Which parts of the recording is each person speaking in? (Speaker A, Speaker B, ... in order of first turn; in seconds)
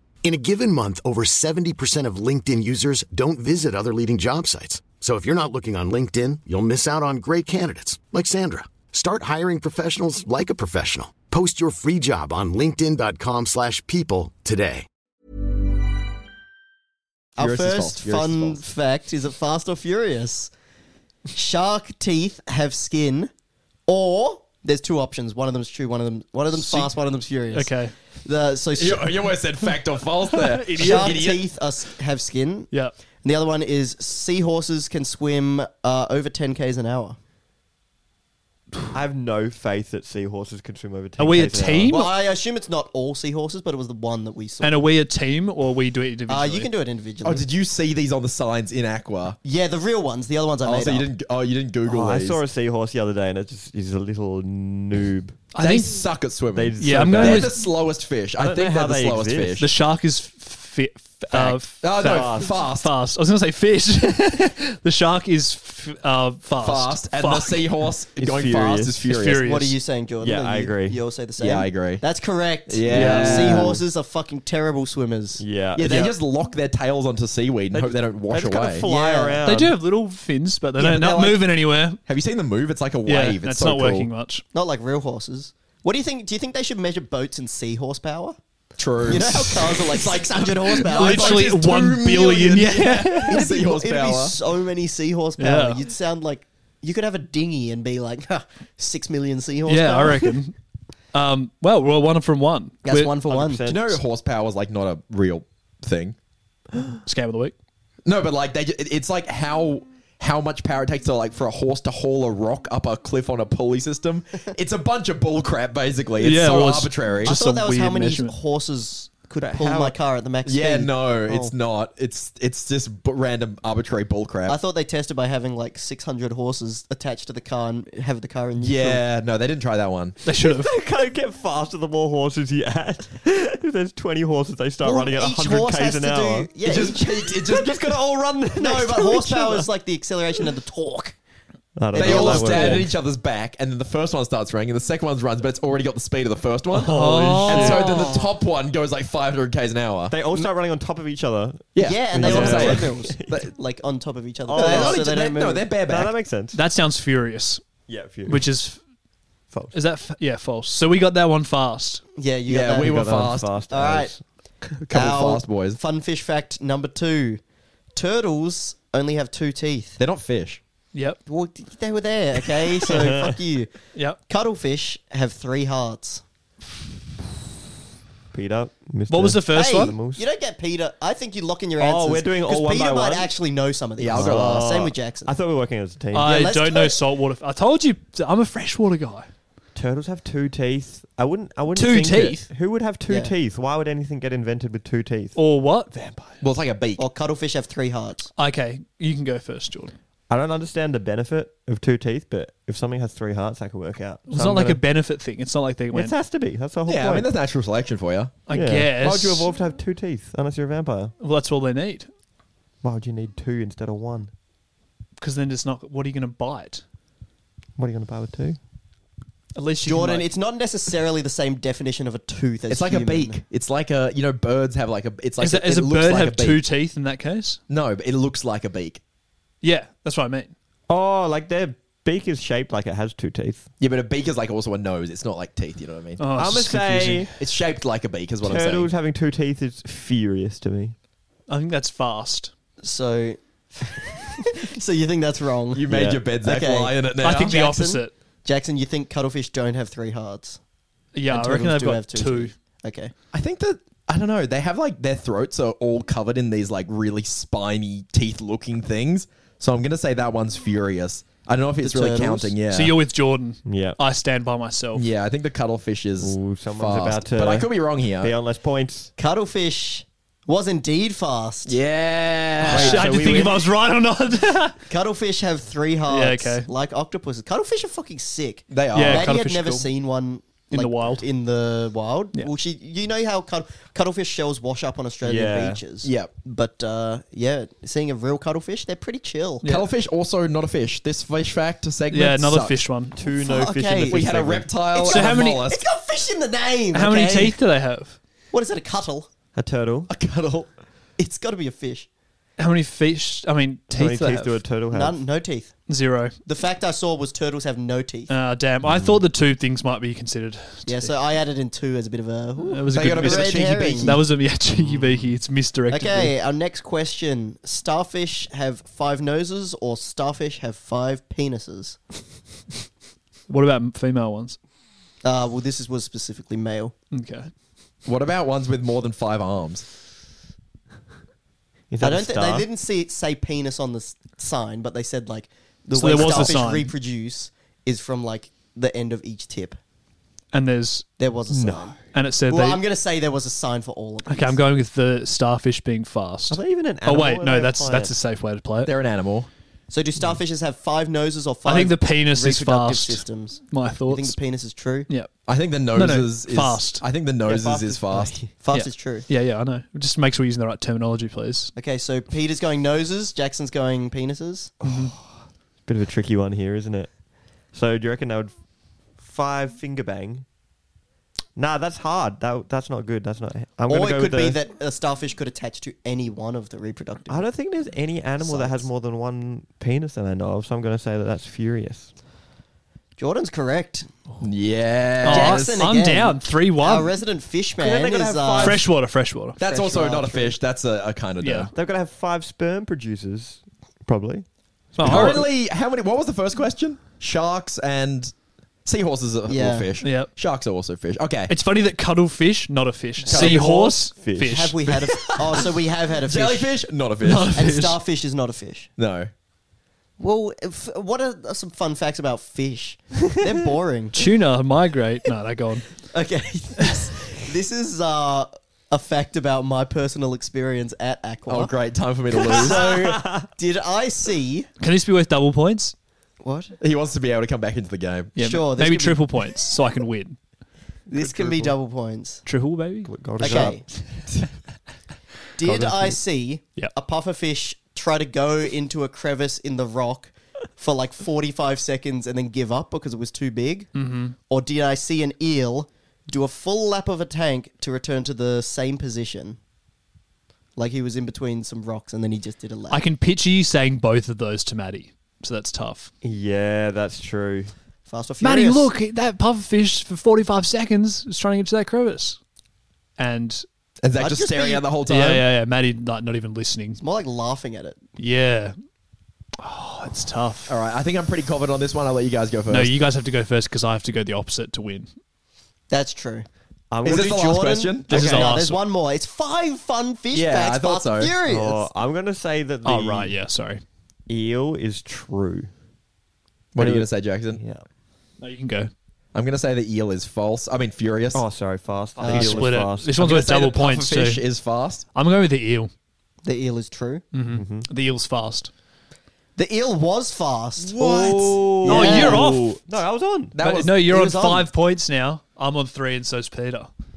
Speaker A: 0.2-14.8
Speaker B: 17.4-20.5, 21.3-23.3, 23.9-29.1, 30.8-37.2, 41.9-44.9, 46.3-47.5, 49.4-51.1, 69.4-76.1, 78.8-79.4, 84.5-88.3, 89.0-91.5, 93.3-100.3, 102.8-103.7, 117.2-121.5, 124.5-129.0, 134.8-137.1, 138.6-141.2, 141.9-142.8, 147.7-148.2, 151.8-155.6, 162.2-163.0, 163.7-164.1, 164.9-167.4, 167.9-170.0, 171.2-173.7, 174.3-176.2, 179.5-185.3, 186.2-187.0, 193.1-193.3, 197.0-198.3, 219.8-223.4, 242.8-250.6, 251.3-253.1, 261.8-262.5, 269.2-271.8, 274.9-289.6, 293.3-294.3, 294.9-297.6, 298.5-299.3, 301.2-302.1, 304.9-305.7, 306.4-308.3, 310.9-314.2, 315.9-322.0, 325.2-326.9, 332.0-339.8, 341.2-344.6, 349.9-355.1, 357.4-359.3, 361.8-364.7, 373.9-377.4, 378.4-378.9, 383.2-384.1, 385.2-388.9, 389.6-390.5, 399.5-399.9, 403.3-403.7, 404.5-406.8, 407.5-408.9, 410.2-414.2, 416.1-421.7, 422.5-424.7, 426.4-426.7, 428.4-429.2, 431.1-432.4, 433.4-433.8, 435.6-443.9, 444.5-449.6, 450.8-453.0, 458.1-458.9, 464.2-464.9, 467.0-468.0, 475.9-476.4, 477.0-481.9, 492.2-492.7, 496.4-497.2, 499.6-501.0, 501.8-502.5, 504.1-504.7
Speaker C: 17.4-18.6, 28.8-31.4, 47.2-49.4, 50.6-52.4, 55.6-59.7, 61.3-62.9, 66.6-69.5, 71.4-72.0, 72.7-73.8, 75.7-78.9, 80.8-81.5, 82.0-84.1, 88.8-94.3, 103.7-106.2, 108.0-117.3, 120.5-124.6, 128.6-130.2, 136.6-138.0, 141.9-150.4, 151.7-153.5, 154.5-156.1, 162.5-163.5, 164.8-165.8, 170.0-170.6, 184.0-184.9, 196.4-197.0, 206.8-208.4, 209.0-209.5, 222.7-226.6, 227.7-229.0, 233.8-236.2, 237.4-238.9, 245.7-247.6, 253.3-262.9, 264.9-268.3, 271.6-273.4, 278.7-279.4, 286.0-286.3, 289.6-292.8, 294.1-295.8, 300.1-300.7, 312.9-314.2, 328.1-329.9, 348.8-349.5, 355.5-358.4, 384.4-385.9, 389.6-391.7, 395.0-398.3, 398.8-401.5, 403.3-404.0, 405.1-405.7, 406.2-407.6, 409.0-409.3, 421.5-422.8, 426.8-428.4, 464.0-465.4, 470.7-472.9, 477.0-478.6, 480.3-481.3, 486.7-487.6, 489.3-491.4, 493.1-495.1, 500.8-501.9, 503.5-504.0
Speaker D: 26.5-26.9, 27.5-27.9, 30.3-31.2, 41.2-42.1, 44.6-46.7, 55.5-56.0, 56.8-57.5, 59.6-67.7, 69.0-69.7, 72.9-73.4, 79.4-82.0, 83.0-84.4, 90.9-93.4, 95.4-95.8, 99.7-100.5, 101.1-103.2, 107.0-107.5, 116.2-118.3, 130.2-130.7, 146.9-148.0, 156.5-157.6, 158.2-158.8, 159.7-162.0, 170.9-171.2, 179.1-179.9, 186.1-189.3, 191.7-192.5, 195.3-196.3, 198.4-199.9, 204.3-206.1, 208.5-209.5, 211.2-212.1, 215.2-216.8, 219.5-220.3, 225.4-227.6, 229.6-230.5, 236.2-237.3, 241.5-242.5, 247.2-248.1, 251.1-252.5, 262.7-265.0, 272.6-274.8, 276.1-276.7, 278.9-279.9, 280.7-281.2, 289.6-289.9, 292.1-293.2, 295.1-295.6, 296.9-298.2, 302.6-304.6, 305.9-306.4, 308.3-311.1, 312.7-316.3, 323.5-324.6, 327.1-327.5, 335.9-336.9, 340.5-341.1, 342.1-342.8, 344.3-348.9, 351.6-354.4, 355.9-357.0, 358.7-361.7, 364.8-365.1, 385.2-387.1, 388.6-389.6, 391.4-391.7, 394.9-395.4, 400.0-400.3, 401.5-405.3, 407.2-408.0, 414.1-416.0, 424.8-425.9, 428.4-430.4, 432.4-433.1, 443.9-444.3, 452.9-456.1, 458.4-462.4, 463.2-463.6, 465.1-467.0, 468.2-468.7, 469.6-470.7, 472.7-475.1, 478.1-478.8, 482.8-483.8, 488.4-488.9, 492.2-494.4, 495.1-495.9, 497.3-498.7, 501.9-502.8, 503.6-506.9
Speaker E: 38.9-42.0, 51.8-55.4, 56.5-57.7, 58.4-59.7, 62.0-62.5, 68.2-69.0, 70.2-71.0, 72.9-73.8, 75.4-76.1, 77.7-79.8, 103.2-104.0, 119.4-120.0, 130.4-136.5, 137.3-139.7, 141.8-142.9, 146.7-148.1, 150.1-153.3, 154.5-155.2, 155.8-156.6, 157.9-158.5, 162.8-164.2, 172.9-173.3, 178.3-180.2, 181.8-183.3, 184.1-186.5, 189.7-195.4, 200.3-204.8, 205.9-207.3, 208.5-211.1, 212.8-214.3, 217.8-218.6, 230.9-233.7, 236.3-237.3, 238.4-240.9, 245.9-246.2, 263.6-264.0, 266.2-269.1, 272.7-273.7, 285.2-285.8, 293.1-294.7, 299.5-300.1, 303.9-305.2, 314.8-315.1, 331.9-332.6, 341.5-341.9, 346.5-348.1, 364.8-365.2, 365.9-367.1, 367.7-368.6, 369.2-370.4, 371.6-374.6, 377.3-382.1, 387.8-388.8, 391.7-394.4, 395.0-395.4, 403.6-404.6, 422.4-423.5, 431.1-431.8, 433.0-434.2, 435.6-436.2, 456.2-457.7, 476.9-477.5, 481.4-483.4, 484.3-485.7, 486.8-487.8, 491.3-493.1, 497.5-497.9, 501.0-503.6